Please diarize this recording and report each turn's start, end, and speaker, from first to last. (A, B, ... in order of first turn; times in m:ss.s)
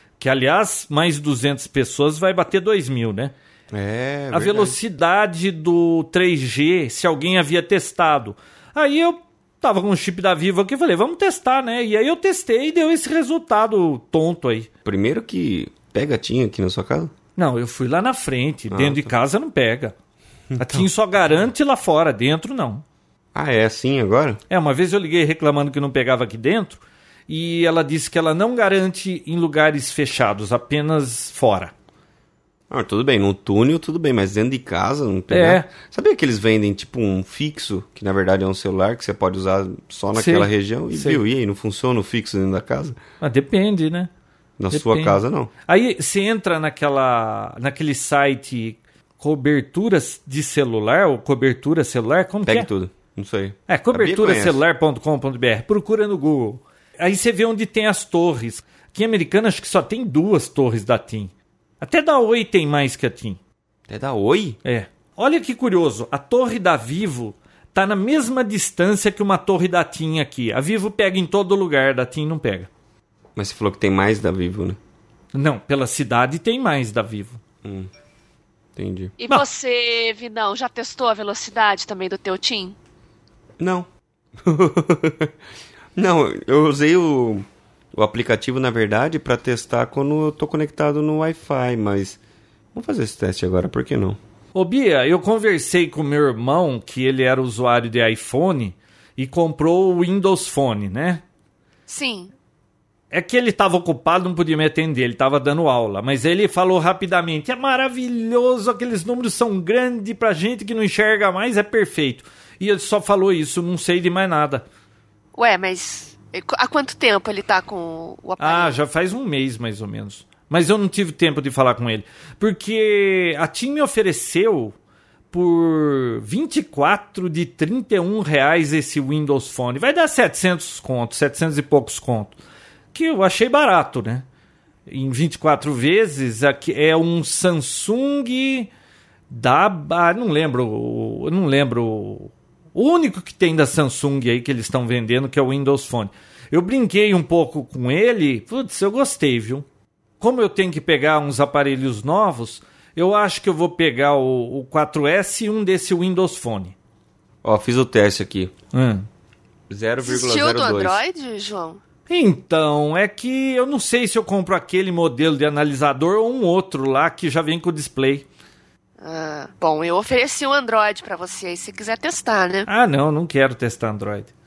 0:00.2-0:03.3 A
0:03.7-0:04.8 B
0:04.3-0:14.7 A
0:14.8-0:17.1 B
0:17.4-0:20.0 A
0:18.7-0:19.1 B
0:20.5-0:20.9 B
0:20.6-0:22.8 A
0:23.3-0:24.4 B
0:24.5-0:31.7 A
0:32.7-0:43.0 B
0:35.3-0:35.7 A
0:40.1-0:41.2 A
0:43.2-0:44.1 A
0:44.6-0:45.5 B
0:44.7-0:52.7 A
0:52.5-0:54.6 B
0:53.7-1:03.4 A
1:03.9-1:04.6 B
1:04.6-1:12.7 A
1:13.4-1:14.8 B
1:15.3-1:17.4 A
1:17.6-1:17.9 B
1:18.8-1:19.1 B
1:19.2-1:22.8 C
1:23.6-1:23.9 B
1:24.4-1:25.3 B
1:26.0-1:32.2 B
1:32.7-1:34.2 B
1:34.6-1:41.2 A
1:41.9-1:42.3 C
1:43.1-1:54.7 A
1:55.4-1:58.8 C
1:58.4-2:04.8 A
2:05.3-2:12.4 A
2:12.9-2:14.3 A
2:14.9-2:18.7 A
2:19.3-2:29.6 A
2:30.2-2:36.8 A
2:37.4-2:38.5 B
2:38.7-2:39.1 A
2:39.7-2:41.0 B
2:40.0-2:41.8 C
2:42.1-2:48.3 A
2:49.0-2:52.7 C
2:52.7-2:54.3 A